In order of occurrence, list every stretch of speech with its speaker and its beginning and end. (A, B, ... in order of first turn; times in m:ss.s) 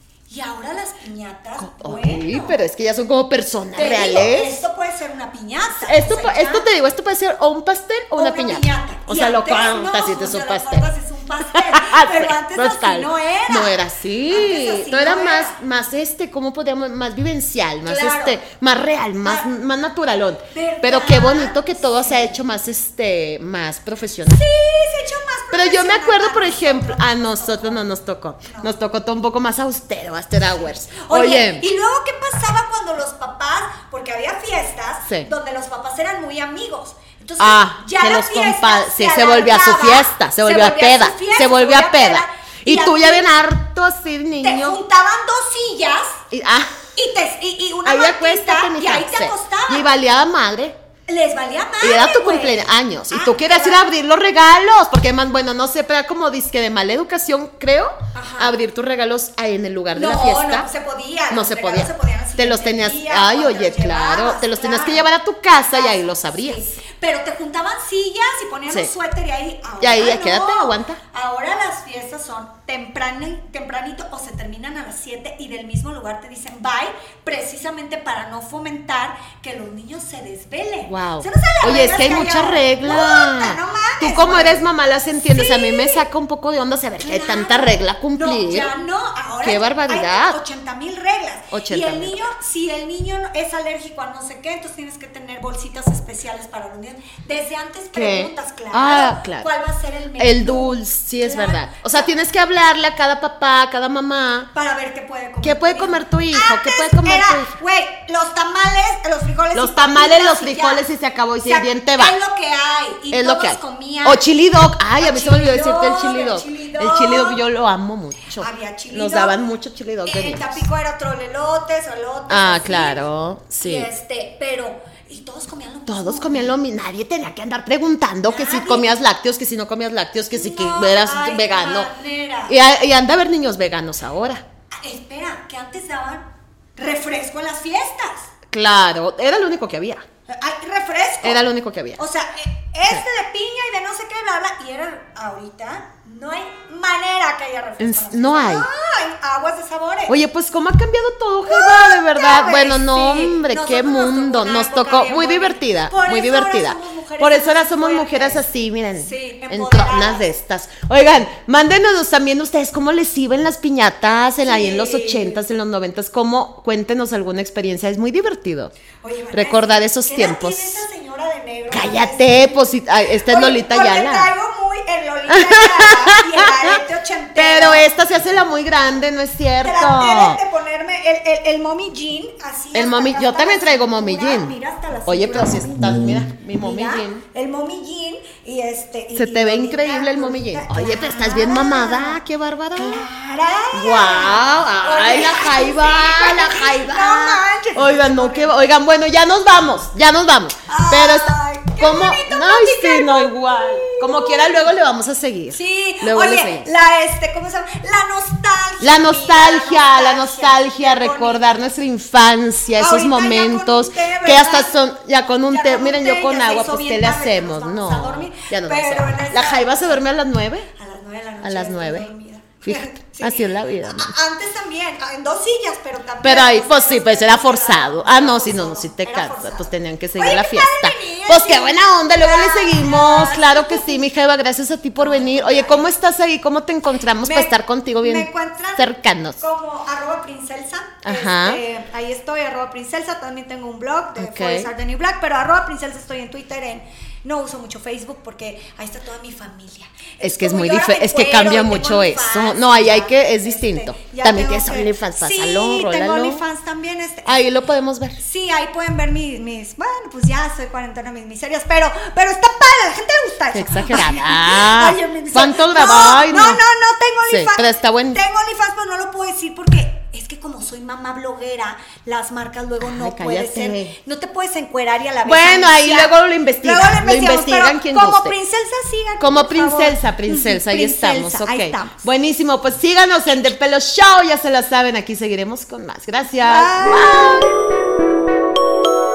0:00.3-0:02.6 A
0:01.6-0:04.6 B
0:03.7-0:06.7 A
0:05.8-0:10.9 B
0:08.1-0:13.8 A
0:11.4-0:24.4 B
0:14.3-0:15.6 A
0:17.8-0:18.4 A
0:20.5-0:22.4 A
0:24.3-0:27.8 A
0:25.5-0:31.6 B
0:28.4-0:28.7 A
0:30.9-0:43.3 A
0:37.4-0:44.8 B
0:44.4-0:46.2 A
0:46.3-0:46.8 B
0:47.0-0:49.9 A
0:47.8-0:50.8 B
0:51.1-0:53.9 A
0:51.8-1:00.7 B
0:58.1-0:58.5 A
0:59.9-1:05.1 A
1:01.3-1:06.6 B
1:05.7-1:24.6 A
1:09.8-1:11.0 B
1:20.9-1:28.7 B
1:25.3-1:26.0 A
1:27.0-1:42.1 A
1:29.4-1:30.4 B
1:31.5-1:32.3 B
1:37.9-1:39.5 B
1:40.2-1:44.5 B
1:44.5-1:50.9 A
1:45.4-1:47.5 B
1:49.5-1:52.2 B
1:51.4-1:54.3 A
1:53.1-2:00.6 B
1:55.0-1:57.4 A
1:58.4-1:59.5 A
2:00.0-2:03.0 A
2:02.3-2:03.9 B
2:03.6-2:06.6 A
2:05.9-2:11.9 B
2:08.3-2:08.9 A
2:10.3-2:12.6 A
2:12.5-2:14.4 B
2:14.7-2:16.2 A
2:16.8-2:18.3 A
2:18.5-2:20.0 B
2:20.3-2:21.4 A
2:21.2-2:22.0 B
2:22.0-2:30.2 A
2:27.8-2:28.7 B
2:30.1-2:48.7 B
2:31.4-2:40.3 A
2:44.4-2:45.4 A
2:49.0-2:52.6 A
2:49.3-2:50.8 B
2:51.7-2:54.3 B
2:53.2-2:57.8 A
2:55.3-2:56.7 B
2:57.4-3:00.4 B
2:59.6-3:06.0 A
3:02.7-3:04.5 B
3:05.0-3:07.2 B
3:06.5-3:12.2 A
3:09.1-3:13.0 B
3:12.8-3:18.5 A
3:13.7-3:26.7 B
3:20.7-3:24.7 A
3:25.5-3:31.6 A
3:28.8-3:40.7 B
3:32.8-3:34.8 A
3:35.5-3:40.0 A
3:40.7-3:54.0 A
3:41.4-3:42.1 B
3:42.6-3:44.1 B
3:46.2-3:59.4 B
3:55.0-3:55.9 A
3:57.2-3:58.8 A
3:59.4-4:17.4 A
4:01.0-4:01.6 B
4:04.2-4:04.7 B
4:10.2-4:16.4 B
4:17.2-4:18.2 B
4:18.2-4:42.0 A
4:23.5-4:26.6 B
4:27.3-4:28.2 B
4:32.8-4:34.0 B
4:35.2-4:38.3 B
4:39.2-4:47.6 B
4:46.4-4:47.5 A